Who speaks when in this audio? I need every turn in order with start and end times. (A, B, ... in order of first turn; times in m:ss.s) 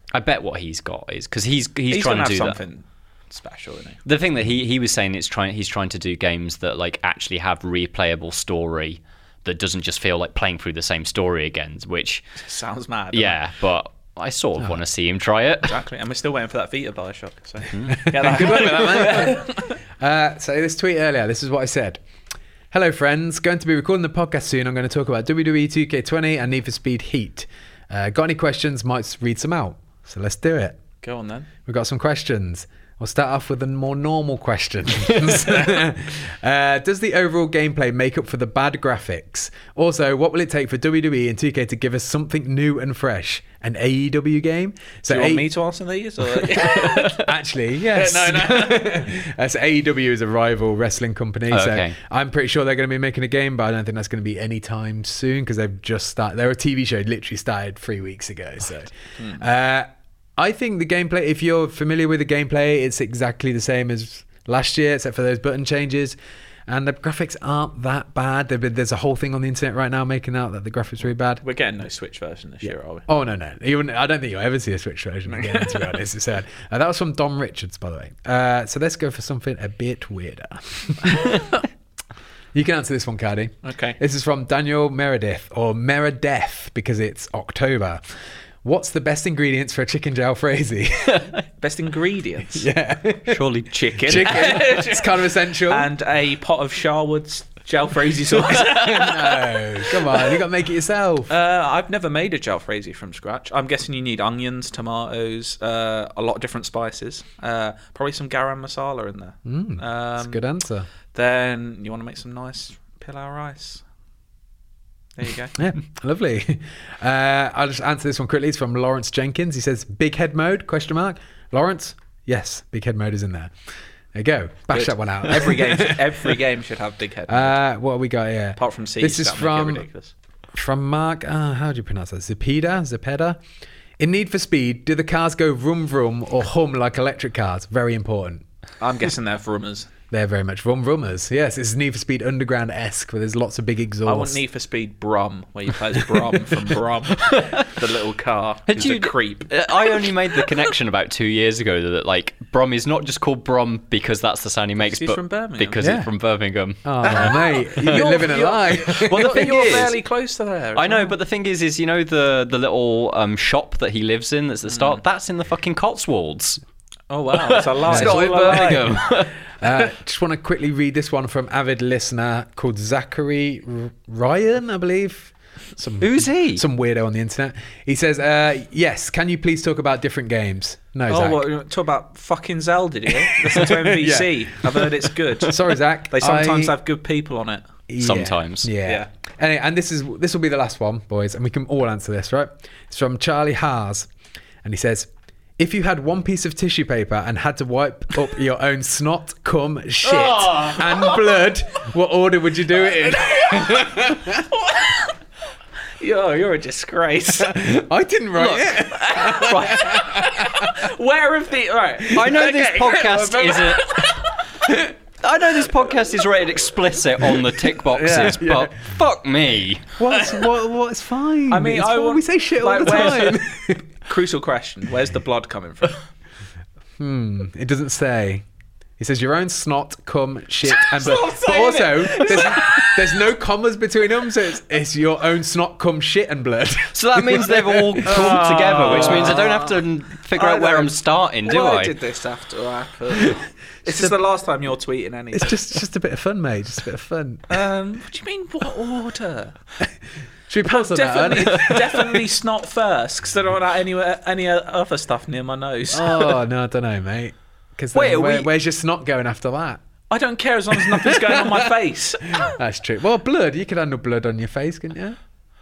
0:00.1-0:02.6 A
0:01.9-0:04.0 B
0:04.0-0:12.3 A
0:12.4-0:13.4 B
0:13.1-0:15.8 A
0:15.6-0:19.8 B
0:17.7-0:18.6 A
0:18.0-0:22.0 C
0:22.7-0:30.8 C
0:31.0-0:31.5 B
0:31.6-0:45.4 C
0:45.1-0:47.3 B
0:46.6-1:06.2 C
0:47.8-0:49.0 B
0:51.5-0:51.9 A
0:59.2-0:59.4 B
1:06.7-1:11.4 C
1:11.4-1:13.0 B
1:13.1-1:21.4 C
1:15.3-1:15.9 B
1:22.5-1:28.0 C
1:23.6-1:24.0 B
1:28.6-1:31.3 C
1:31.6-1:32.7 B
1:32.5-1:33.4 C
1:33.2-1:34.4 A
1:33.7-1:40.4 B
1:34.0-1:35.9 C
1:38.4-1:41.3 C
1:41.3-1:50.4 B
1:49.4-1:50.9 C
1:51.1-1:53.8 B
1:55.2-1:55.6 B
1:55.6-2:03.5 C
2:04.1-2:06.4 C
2:04.7-2:07.6 B
2:07.3-2:09.8 C
2:08.6-2:10.1 B
2:10.5-2:13.4 C
2:14.0-2:18.4 C
2:18.8-2:19.9 B
2:20.1-2:24.4 C
2:24.0-2:30.2 B
2:27.2-2:27.7 A
2:28.7-2:38.2 A
2:34.8-2:35.9 B
2:35.8-2:36.1 C
2:36.8-2:39.4 C
2:37.0-2:41.1 B
2:38.9-2:40.0 A
2:40.8-2:46.6 A
2:44.7-2:45.0 B
2:47.1-2:48.9 B
2:47.4-2:49.5 A
2:47.9-3:01.4 C
2:56.0-2:56.6 A
3:01.1-3:07.7 B
3:03.1-3:06.7 C
3:07.9-3:14.1 C
3:08.0-3:08.7 A
3:14.6-3:24.5 C
3:20.1-3:21.2 B
3:22.9-3:25.1 B
3:26.0-3:27.6 B
3:27.4-3:30.9 C
3:28.5-3:34.5 B
3:32.1-3:34.0 A
3:34.6-3:34.9 C
3:35.2-3:39.9 A
3:37.9-3:38.7 C
3:40.0-3:43.8 C
3:40.1-3:40.5 B
3:41.5-3:46.1 B
3:47.0-3:48.4 C
3:49.0-3:59.4 C
3:50.8-3:52.8 B
3:51.0-3:53.0 A
3:56.9-4:01.9 A
3:58.0-4:05.7 B
4:03.2-4:04.1 C
4:05.3-4:07.5 C
4:07.5-4:09.6 B
4:10.5-4:12.3 C
4:10.6-4:16.4 B
4:15.9-4:19.8 C
4:18.0-4:18.3 A
4:18.0-4:18.5 B
4:20.1-4:22.6 B
4:20.7-4:21.7 C
4:22.2-4:25.2 C